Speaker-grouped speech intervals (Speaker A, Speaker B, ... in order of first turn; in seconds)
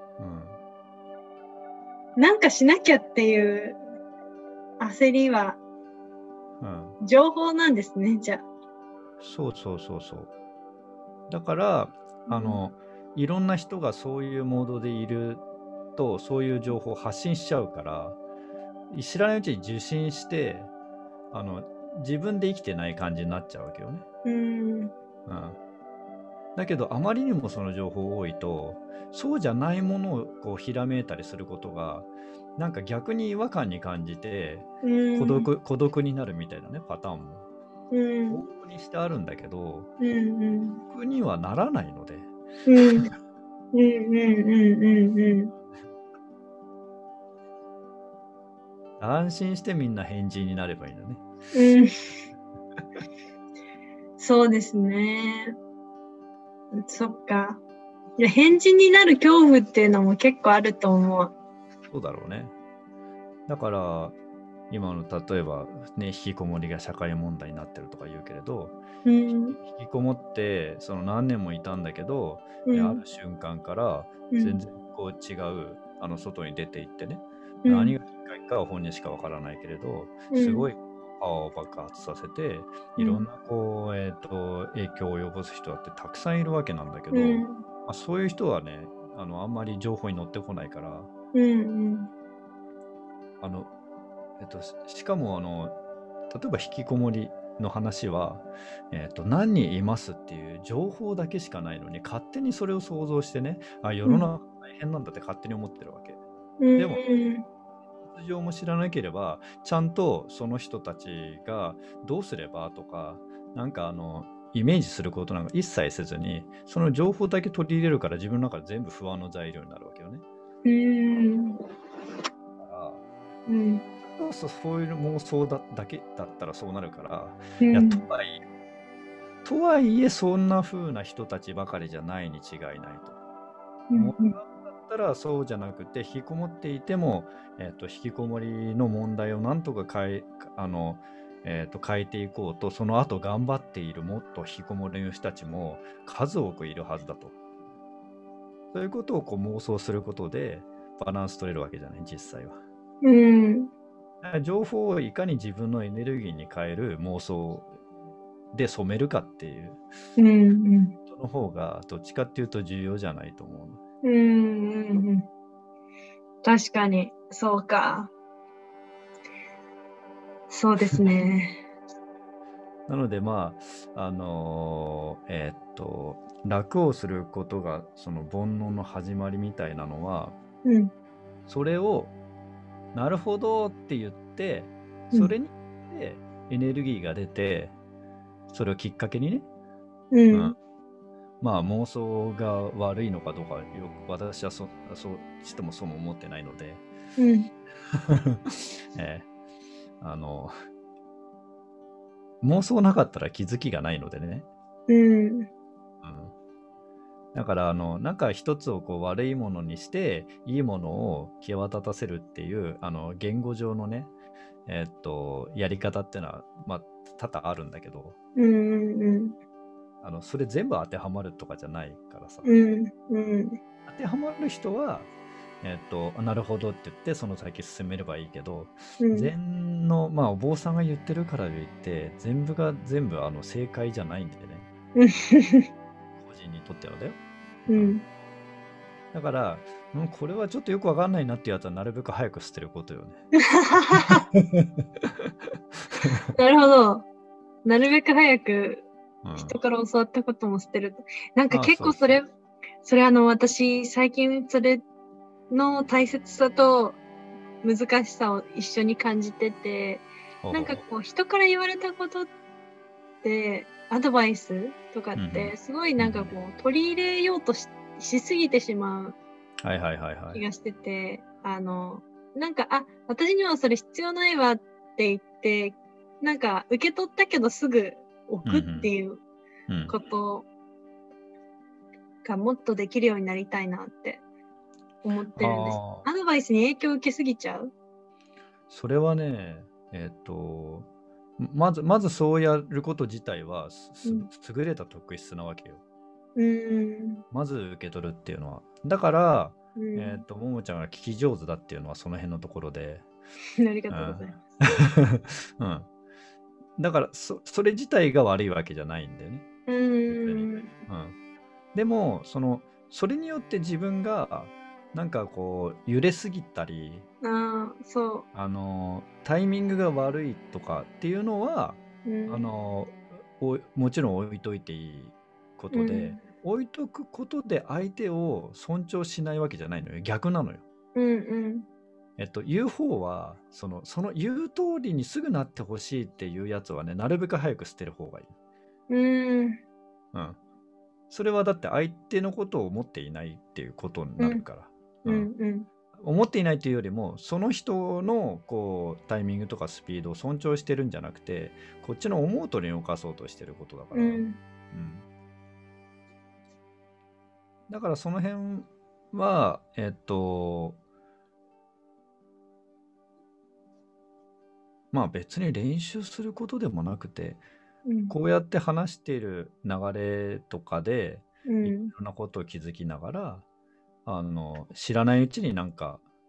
Speaker A: 0.2-0.6, 6.6-7.0, 9.2-10.3, 11.3-15.4, 15.9-18.2, 18.9-20.7, 21.3-24.0, 25.3-25.6, 26.5-37.5, 38.3-39.9, 40.8-42.3, 49.0-51.2, 61.9-62.5, 63.5-64.2, 64.7-68.8, 69.3-91.1, 93.4-93.7, 94.4-95.8, 96.3-106.2, 106.8-107.0, 108.0-120.2, 122.6-123.0, 124.0-128.4, 129.4-133.2, 133.9-147.3, 148.7-152.6, 154.2-157.7, 158.5-159.8, 161.1-163.8, 172.9-180.4, 181.5-182.1, 182.9-187.7, 188.5-189.4, 190.3-190.6, 191.4-196.8, 197.9-199.3, 200.0-200.5, 202.4-204.5, 206.0-206.3, 207.3-214.1, 214.7-218.2, 220.0-222.5, 223.8-225.1, 225.6-234.7, 236.2-238.0, 239.1-243.2, 243.9-245.3, 245.9-246.3, 249.2-249.6, 251.5-252.2, 260.4-260.8, 265.1-266.3, 269.6-270.4, 278.4-278.9, 279.7-279.9, 285.4-286.1, 288.7-295.8, 297.3-303.1, 303.9-305.9, 306.8-309.4, 310.1-311.1, 311.7-317.1, 318.3-330.6, 332.2-338.3, 340.1-340.4, 341.1-345.3, 345.9-355.1, 357.7-360.8, 364.9-367.4, 368.1-373.4, 374.1-376.0
Speaker B: 2.2-3.8, 4.8-5.6, 7.0-8.4, 12.3-12.6, 24.2-24.9, 34.8-35.5, 37.9-38.4, 40.0-40.8, 42.6-43.1, 43.7-45.5, 51.5-51.9, 54.2-55.5, 56.8-57.6, 58.2-61.3, 69.0-69.6, 72.7-73.0, 74.3-74.6, 77.6-78.0, 80.3-80.7, 83.0-83.2, 87.1-87.6, 91.3-92.1, 104.0-104.3, 106.6-107.4, 120.6-121.6, 123.5-123.8, 127.6-128.0, 133.9-134.3, 153.0-153.7, 160.2-160.9, 164.0-165.2, 166.4-168.1, 170.5-171.6, 180.6-180.9, 190.1-190.5, 197.2-197.5, 204.9-205.5, 218.3-219.3, 222.4-223.6, 229.0-229.3, 234.9-235.7, 237.7-238.0, 243.5-244.2, 246.3-247.1, 247.6-248.9, 249.4-252.3, 252.8-254.8, 255.5-257.0, 257.6-262.3, 263.2-269.2, 270.3-279.2, 279.9-280.5, 282.2-284.2, 285.0-287.7, 296.4-297.2, 299.8-300.2, 303.6-304.4, 309.7-310.7, 317.2-318.2, 322.1-322.5, 325.7-326.2, 330.9-331.7, 338.9-339.6, 345.1-345.7, 353.9-354.4, 367.9-368.1, 371.5-371.9